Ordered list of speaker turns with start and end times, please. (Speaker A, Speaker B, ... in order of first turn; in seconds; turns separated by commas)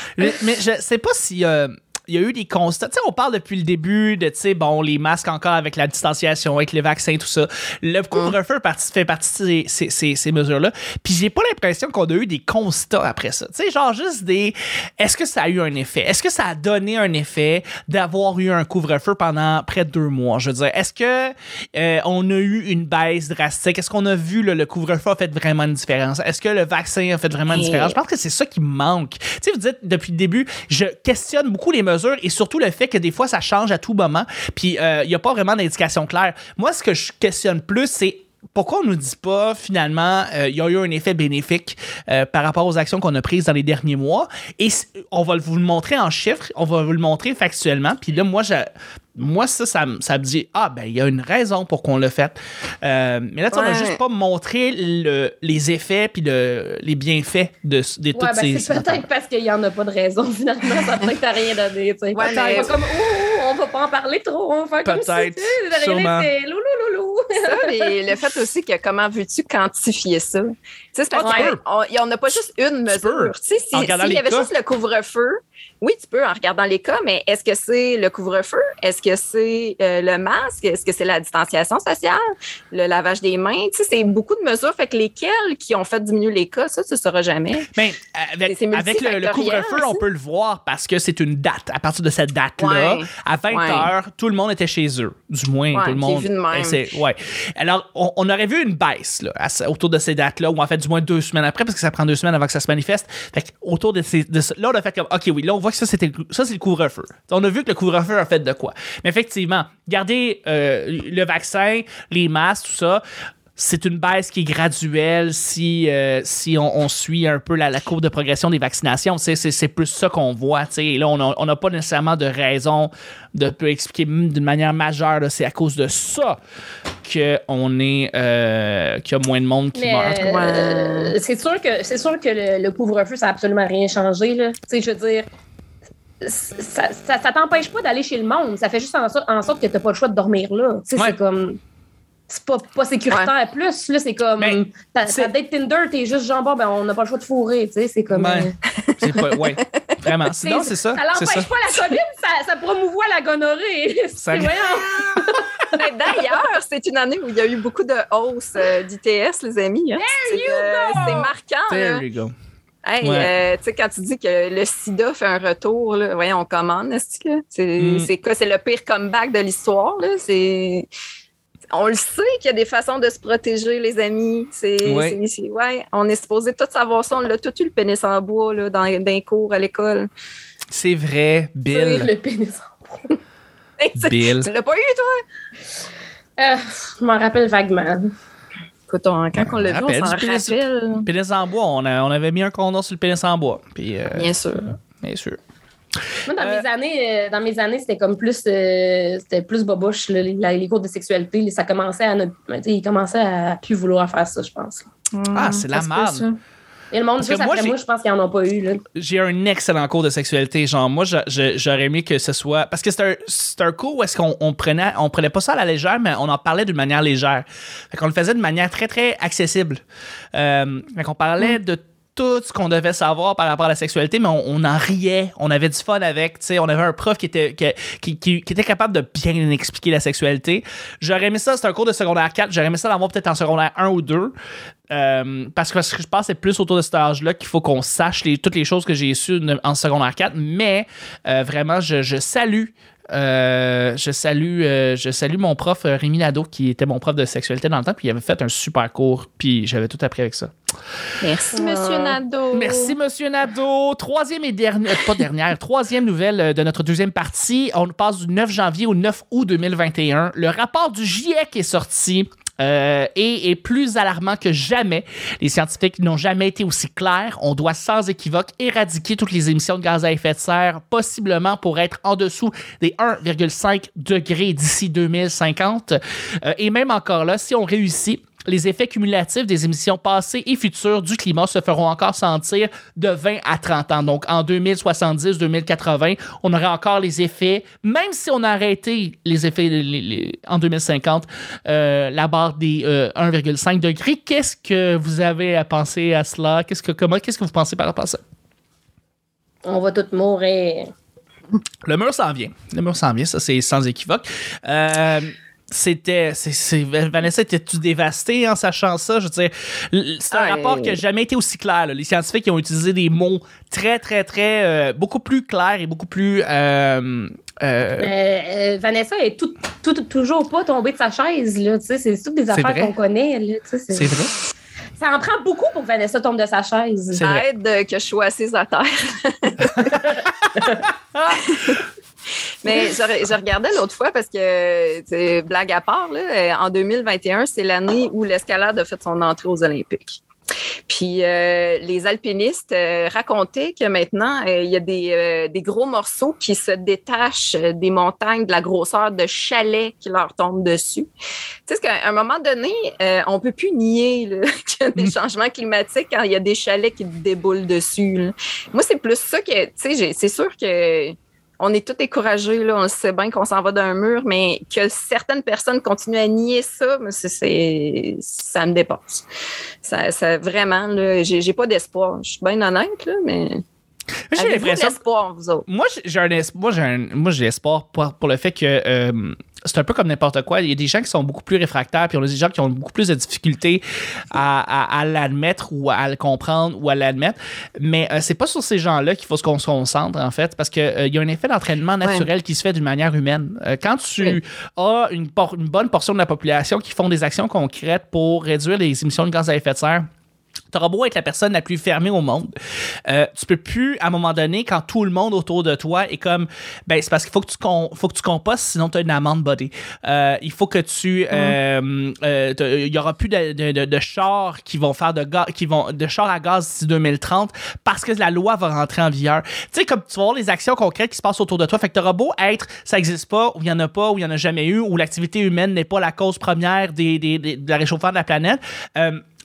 Speaker A: 0.2-59.0, Speaker B: 27.5-28.0, Speaker B: 53.5-54.0, Speaker C: 58.1-67.9, Speaker B: 62.1-62.7, Speaker A: 62.2-62.7, Speaker A: 64.8-66.3, Speaker B: 67.4-87.7, Speaker A: 71.1-71.6, Speaker C: 71.2-71.5, Speaker A: 72.9-74.5, Speaker A: 87.7-113.0, Speaker B: 88.5-90.0, Speaker B: 92.6-93.9, Speaker B: 95.7-96.8, Speaker A: 113.6-126.4, Speaker A: 127.0-130.3, Speaker C: 129.8-135.3, Speaker B: 130.2-131.2, Speaker C: 136.2-141.6, Speaker C: 142.3-148.6, Speaker A: 144.4-145.3, Speaker A: 148.1-151.5, Speaker B: 148.8-150.0, Speaker C: 150.4-155.9, Speaker A: 154.2-155.3, Speaker B: 155.7-162.0, Speaker C: 160.0-161.3, Speaker A: 161.7-162.3, Speaker B: 162.8-170.9, Speaker A: 163.0-163.3, Speaker A: 167.8-168.1, Speaker B: 171.7-180.1, Speaker A: 174.8-175.2, Speaker A: 180.7-182.1, Speaker C: 181.7-183.2, Speaker B: 183.8-185.2, Speaker A: 184.0-184.5, Speaker C: 186.4-188.1, Speaker B: 188.9-191.1, Speaker A: 189.4-195.4, Speaker B: 194.1-194.7, Speaker C: 196.3-204.9, Speaker A: 196.4-196.6, Speaker B: 205.1-206.4, Speaker A: 205.3-206.3, Speaker C: 206.9-208.8, Speaker A: 207.2-207.8, Speaker A: 208.9-219.8, Speaker A: 220.3-234.3, Speaker A: 234.9-250.5, Speaker B: 251.2-253.0, Speaker C: 251.5-252.2, Speaker A: 252.5-298.2, Speaker C: 299.6-300.9, Speaker A: 301.8-318.1, Speaker B: 310.3-311.0, Speaker C: 318.0-324.2, Speaker A: 322.5-322.9, Speaker A: 323.9-324.3, Speaker C: 325.0-327.3, Speaker B: 327.2-330.0, Speaker A: 329.8-331.8, Speaker B: 331.4-331.8, Speaker B: 332.6-340.2, Speaker B: 340.9-351.1, Speaker B: 351.7-369.2, Speaker B: 369.8-373.6, Speaker A: 374.3-375.0, Speaker B: 374.4-375.6, Speaker A: 375.7-400.1, Speaker B: 392.0-392.3, Speaker A: 400.7-402.5, Speaker A: 403.1-429.2